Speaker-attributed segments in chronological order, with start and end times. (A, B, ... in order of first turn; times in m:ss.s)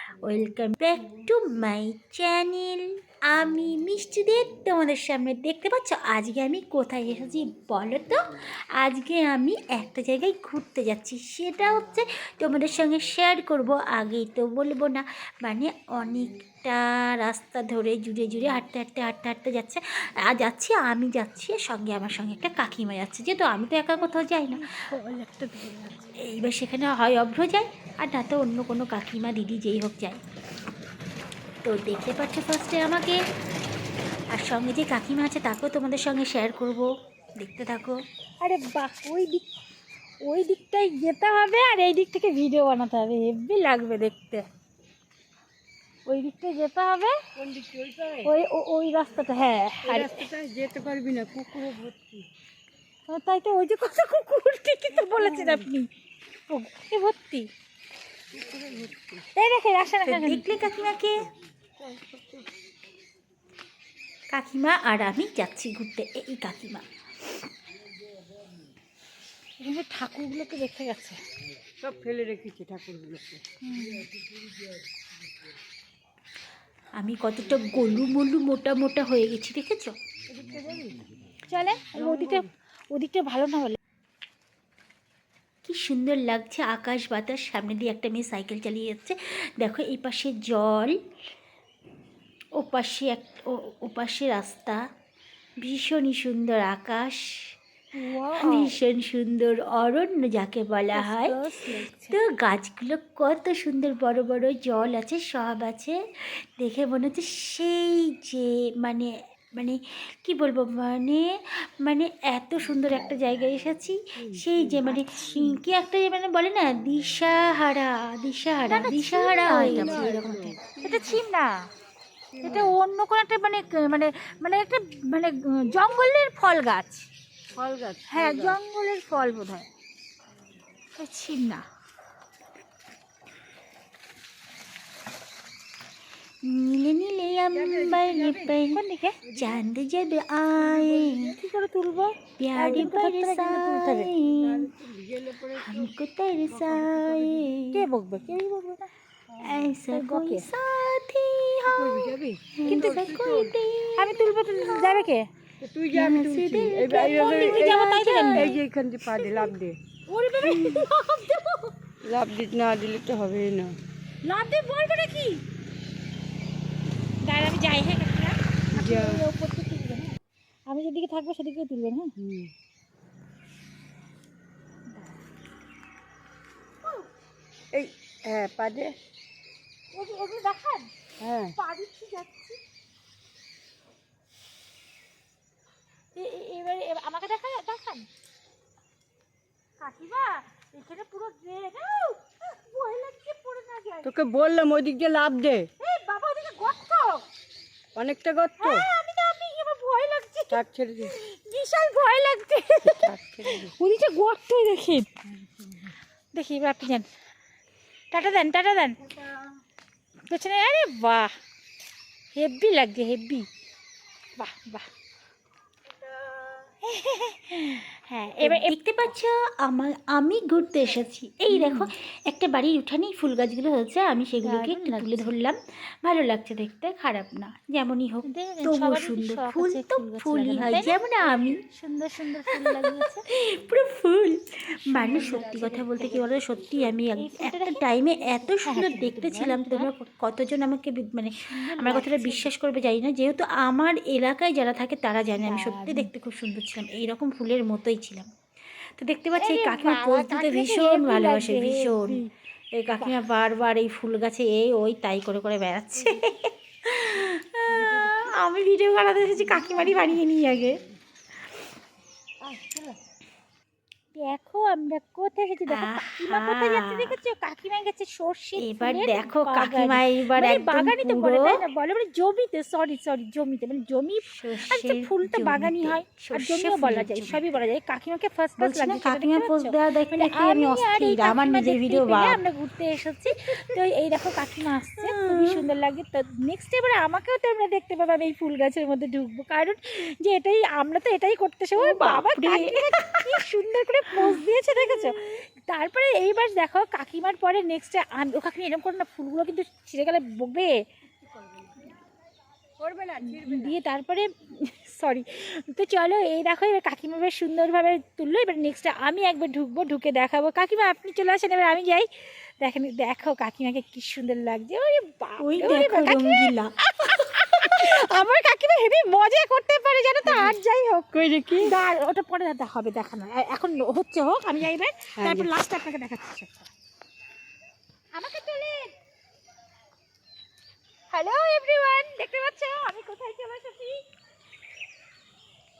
0:00.2-0:24.7 A
0:24.3-0:26.2 B
0:26.2-0:30.2 A
0:31.6-0:33.2 A
0:34.3-0:38.0 A
0:38.4-0:39.4 B
0:40.2-0:44.5 B
0:46.0-0:47.2 B
0:47.4-0:48.3 C
0:48.2-0:50.3 B
0:49.8-0:52.3 C
0:53.1-0:55.9 B
0:55.0-0:55.6 C
0:56.5-0:57.5 B
0:58.3-0:59.3 C
0:59.4-1:00.6 B
1:00.0-1:01.3 A
1:01.8-1:02.4 C
1:04.3-1:06.8 A
1:09.6-1:11.2 B
1:11.8-1:13.4 C
1:13.6-1:14.1 B
1:17.0-1:20.0 A
1:20.3-1:21.0 C
1:21.5-1:23.8 B
1:22.0-1:22.5 C
1:25.6-1:31.0 A
1:32.6-1:34.8 A
1:35.6-1:37.6 A
1:37.9-1:38.8 B
1:38.3-1:41.4 A
1:40.9-1:42.2 B
1:42.1-2:00.6 A
1:54.2-1:54.9 C
1:55.1-1:55.4 B
1:58.7-2:00.2 B
1:59.5-2:01.2 C
2:00.8-2:01.5 B
2:02.3-2:02.7 C
2:02.4-2:07.1 B
2:07.6-2:08.6 C
2:08.1-2:09.7 B
2:11.0-2:11.6 B
2:16.4-2:21.3 A
2:17.5-2:18.6 C
2:18.5-2:19.2 B
2:19.2-2:19.6 C
2:20.7-2:21.3 C
2:21.3-2:24.1 B
2:22.4-2:24.7 A
2:24.2-2:25.9 C
2:25.6-2:27.8 A
2:26.5-2:27.5 C
2:27.7-2:28.9 B
2:29.4-2:35.0 A
2:29.9-2:30.4 B
2:31.6-2:33.5 C
2:32.7-2:33.0 B
2:34.0-2:35.3 B
2:35.6-2:39.8 C
2:35.9-2:38.5 A
2:36.9-2:38.6 B
2:39.2-2:39.5 B
2:40.1-2:41.7 B
2:40.4-2:40.8 A
2:42.0-2:43.8 C
2:44.2-2:45.4 B
2:47.2-2:50.1 B
2:48.7-2:49.2 C
2:50.7-2:52.1 B
2:52.2-2:52.5 C
2:54.9-2:55.2 B
2:57.7-2:59.0 C
2:59.9-3:00.9 B
3:01.2-3:01.6 C
3:01.5-3:02.6 B
3:06.1-3:08.1 B
3:09.8-3:14.1 B
3:14.0-3:15.7 C
3:15.8-3:17.2 B
3:17.9-3:18.9 C
3:18.6-3:25.1 B
3:20.5-3:21.1 C
3:22.8-3:23.7 C
3:26.3-3:27.1 B
3:28.1-3:29.1 B
3:30.3-3:31.3 B
3:32.3-3:33.5 B
3:34.4-3:34.9 B
3:36.2-3:36.6 C
3:36.8-3:38.8 B
3:38.4-3:51.6 A
3:41.5-3:41.9 B
3:44.4-3:45.3 B
3:48.2-3:53.2 B
3:52.5-4:08.3 A
3:54.9-3:56.9 C
3:55.1-3:55.6 B
3:57.2-3:59.9 B
4:01.4-4:02.5 B
4:05.4-4:06.1 B
4:09.0-4:20.8 A
4:09.3-4:12.3 B
4:17.7-4:18.2 C
4:22.4-4:23.0 C
4:24.1-5:00.8 B
4:25.7-4:27.1 A
4:28.6-4:31.6 A
4:34.3-4:37.5 A
4:38.6-4:42.4 A
4:45.0-4:45.6 A
4:51.8-4:53.4 A
4:54.1-4:55.0 A
5:02.8-5:03.8 C
5:03.2-5:12.1 B
5:12.6-5:26.7 B
5:15.4-5:16.7 A
5:20.2-5:20.6 C
5:21.1-5:21.8 C
5:25.2-5:25.5 C
5:28.1-5:28.9 B
5:31.1-5:34.0 B